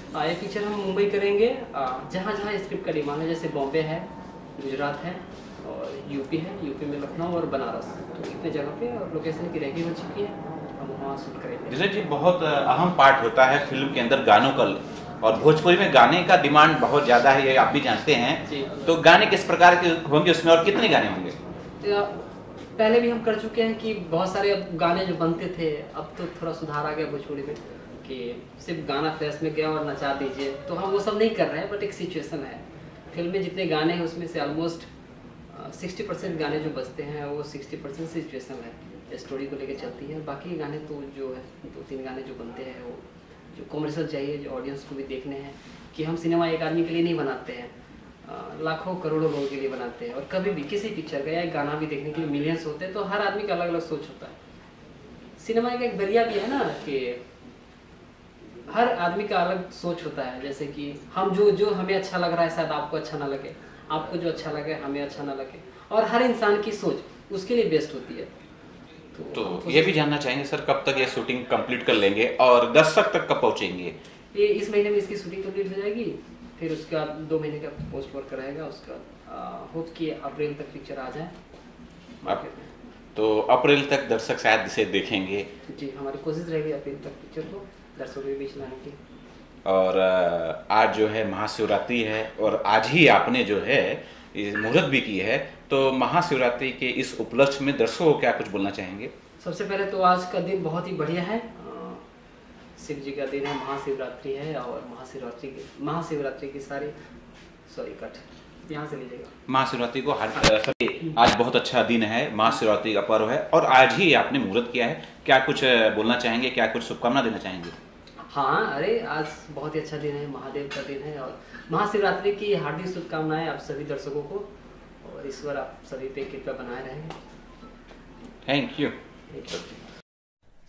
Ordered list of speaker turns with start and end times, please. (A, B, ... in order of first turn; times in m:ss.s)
0:00.1-0:11.8 A
0:11.7-0:21.4 B
0:18.5-0:18.9 A
0:21.8-0:34.9 A
0:35.5-0:47.7 A
0:48.2-0:54.4 A
0:55.4-0:57.2 A
0:58.7-1:08.3 A
1:09.1-1:10.0 A
1:09.3-1:14.0 B
1:14.3-1:21.3 A
1:22.2-1:22.7 A
1:23.2-1:25.5 B
1:25.7-1:29.0 A
1:29.6-1:39.1 B
1:39.4-1:42.0 A
1:42.8-1:47.0 A
1:47.7-1:49.3 A
1:49.5-1:57.8 B
1:58.3-2:04.5 A
2:05.0-2:07.2 A
2:08.4-2:09.0 B
2:09.3-2:09.6 A